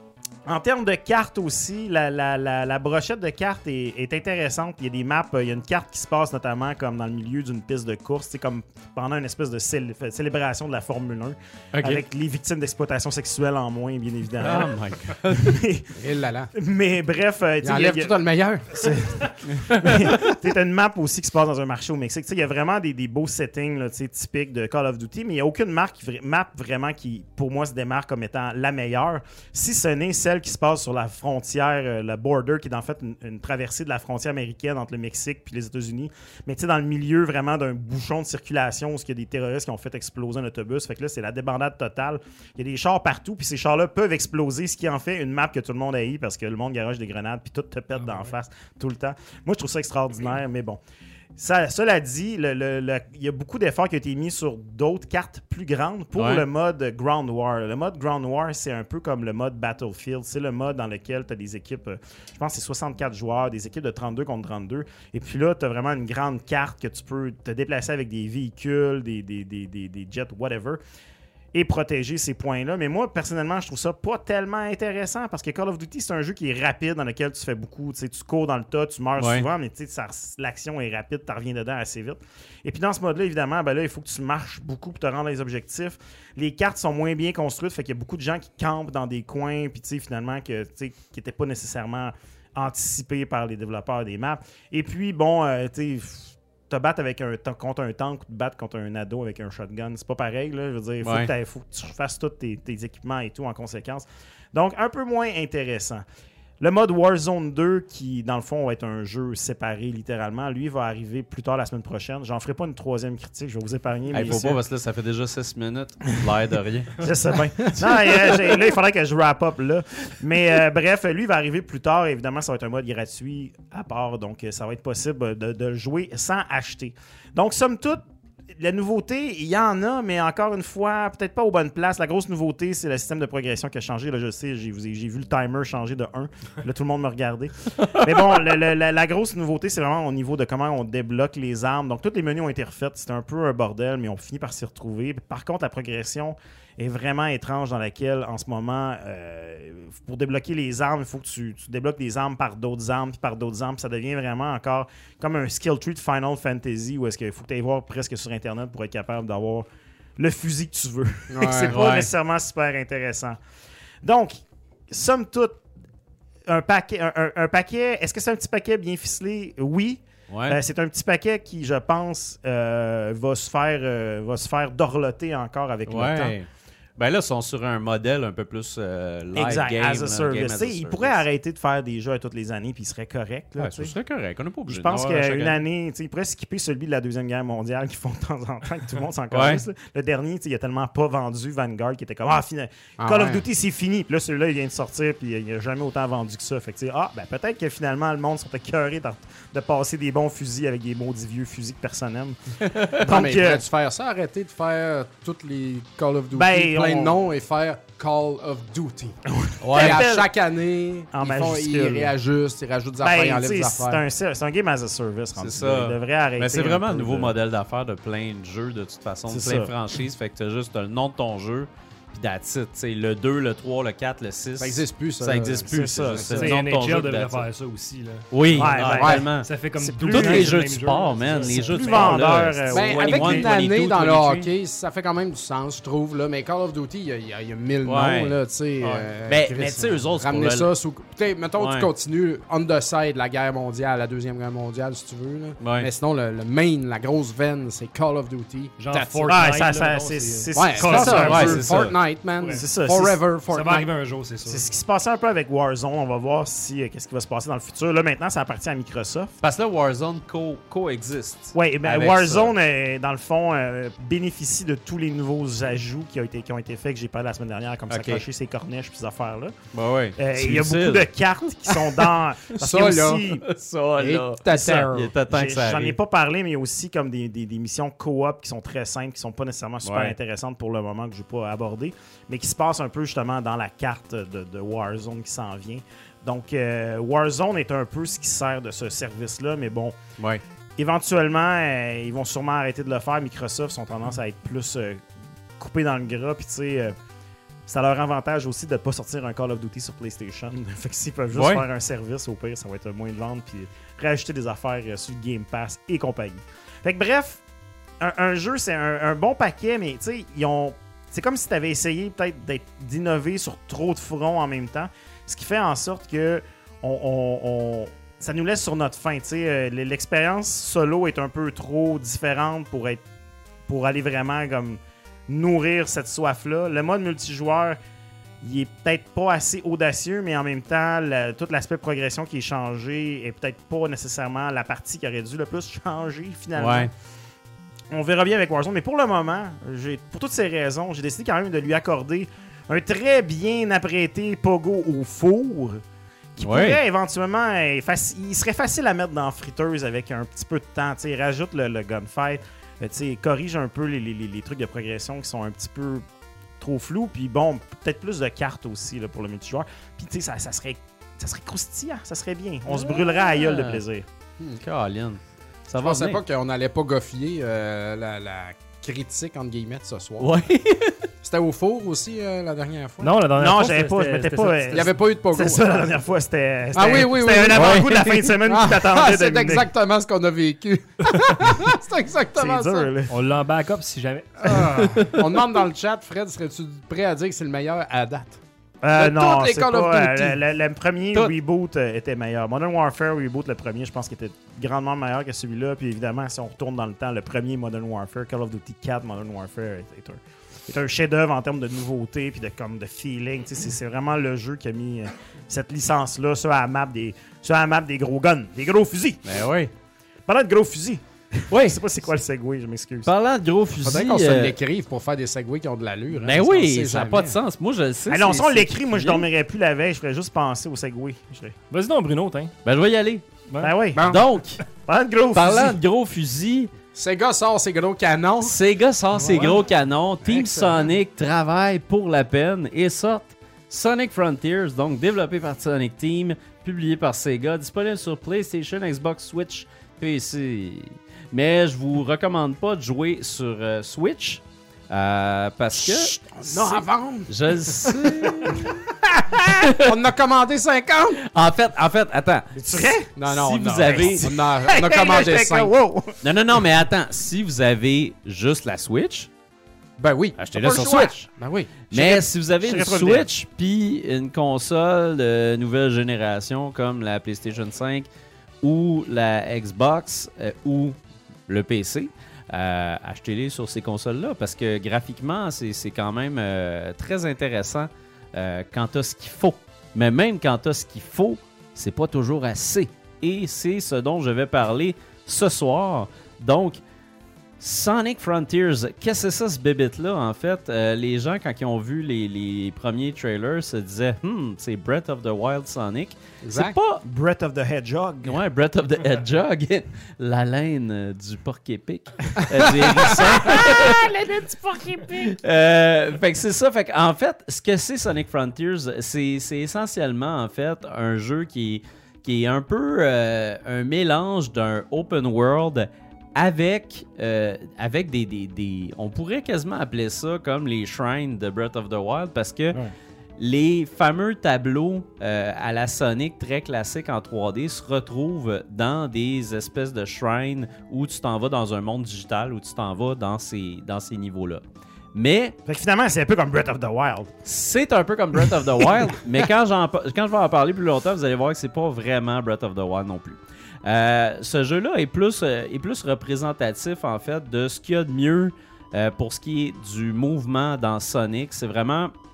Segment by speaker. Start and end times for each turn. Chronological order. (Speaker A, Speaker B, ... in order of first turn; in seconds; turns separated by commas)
Speaker A: 0.5-14.7, Speaker B: 11.7-12.0, Speaker B: 14.4-15.6, Speaker A: 15.3-15.9, Speaker C: 15.9-16.5, Speaker A: 16.5-18.1, Speaker C: 17.6-19.0, Speaker A: 18.7-50.8, Speaker B: 19.5-20.2, Speaker A: 51.4-70.8, Speaker B: 56.1-56.5, Speaker A: 71.5-106.0, Speaker B: 79.2-79.5, Speaker B: 101.0-101.3, Speaker A: 106.6-114.6, Speaker B: 114.1-117.0, Speaker A: 117.0-128.0, Speaker A: 128.6-159.7, Speaker B: 137.8-138.4, Speaker A: 160.2-163.4, Speaker C: 161.3-161.8, Speaker B: 161.7-162.1, Speaker A: 164.0-165.6, Speaker A: 166.5-176.3, Speaker B: 170.3-170.6, Speaker B: 175.9-181.2, Speaker A: 179.3-183.9, Speaker B: 183.6-185.6, Speaker A: 184.7-203.6, Speaker B: 189.3-189.6, Speaker C: 193.0-193.4, Speaker B: 202.7-203.0, Speaker C: 202.9-209.1, Speaker A: 206.3-207.2, Speaker A: 209.3-210.3, Speaker B: 209.6-210.1, Speaker C: 209.7-214.0, Speaker A: 211.1-212.1, Speaker A: 213.0-217.3, Speaker B: 215.4-227.4, Speaker A: 219.3-219.7, Speaker C: 224.6-226.5, Speaker A: 225.7-226.4, Speaker D: 226.3-232.2, Speaker B: 228.3-229.5, Speaker A: 228.5-229.3, Speaker C: 228.9-229.3, Speaker A: 229.8-230.6, Speaker B: 230.0-234.5, Speaker A: 231.4-233.5, Speaker C: 232.7-249.3, Speaker B: 237.8-240.7, Speaker B: 241.6-241.9, Speaker B: 245.6-245.9, Speaker D: 248.8-251.7, Speaker A: 249.2-251.7, Speaker C: 250.5-253.9, Speaker B: 250.9-251.9, Speaker D: 252.4-252.6, Speaker A: 252.5-253.2, Speaker D: 253.5-254.7, Speaker A: 254.4-259.4, Speaker B: 259.4-262.5, Speaker A: 261.5-269.5, Speaker B: 267.9-268.2, Speaker B: 269.7-271.1, Speaker A: 270.2-273.4, Speaker B: 271.7-272.1, Speaker C: 272.6-273.3, Speaker B: 273.4-276.0, Speaker C: 274.0-275.1, Speaker A: 275.3-290.0, Speaker B: 279.8-280.1, Speaker B: 290.2-290.4, Speaker A: 290.8-295.0, Speaker A: 295.6-296.9, Speaker A: 297.7-307.4, Speaker B: 301.3-301.6, Speaker A: 308.0-323.0, Speaker A: 323.7-327.8, Speaker A: 328.4-336.9, Speaker B: 336.5-336.9, Speaker A: 337.9-345.8, Speaker A: 346.4-356.0, Speaker B: 346.4-346.8, Speaker A: 356.6-364.1, Speaker B: 362.7-363.8, Speaker B: 364.6-366.2, Speaker C: 365.8-370.3, Speaker B: 370.2-371.1, Speaker C: 371.2-373.1, Speaker D: 373.0-374.9, Speaker A: 373.3-379.7, Speaker C: 374.7-375.9, Speaker C: 376.7-382.9, Speaker B: 377.5-378.3, Speaker A: 382.4-383.1, Speaker D: 383.1-384.9, Speaker C: 384.4-388.4, Speaker B: 384.7-385.4, Speaker A: 388.8-409.3, Speaker C: 388.9-390.4, Speaker B: 409.2-409.7, Speaker A: 410.3-413.1, Speaker B: 411.5-411.8, Speaker B: 413.0-414.6, Speaker C: 413.8-417.4, Speaker B: 416.1-419.3, Speaker A: 418.1-421.5, Speaker D: 421.7-422.5, Speaker B: 422.6-423.2, Speaker D: 423.5-423.7, Speaker A: 423.6-424.0, Speaker C: 423.9-424.2, Speaker B: 424.0-424.6, Speaker A: 424.8-425.8, Speaker B: 425.3-426.7, Speaker C: 426.9-428.6, Speaker B: 428.4-448.8, Speaker C: 429.1-429.6, Speaker C: 430.2-430.9, Speaker C: 445.8-451.2, Speaker B: 449.5-449.9, Speaker B: 451.1-452.5, Speaker A: 452.5-453.1, Speaker C: 453.1-455.7, Speaker B: 453.2-454.4, Speaker A: 453.9-456.2, Speaker B: 456.2-459.3, Speaker C: 460.0-461.9, Speaker B: 460.4-461.3, Speaker B: 461.9-468.1, Speaker A: 461.9-463.3, Speaker B: 468.6-486.8, Speaker B: 487.6-497.0, Speaker C: 496.4-496.8, Speaker A: 497.0-498.4, Speaker B: 498.2-522.8, Speaker C: 502.6-503.5, Speaker A: 503.4-505.1, Speaker B: 523.4-535.6, Speaker A: 535.6-537.3, Speaker B: 537.4-552.1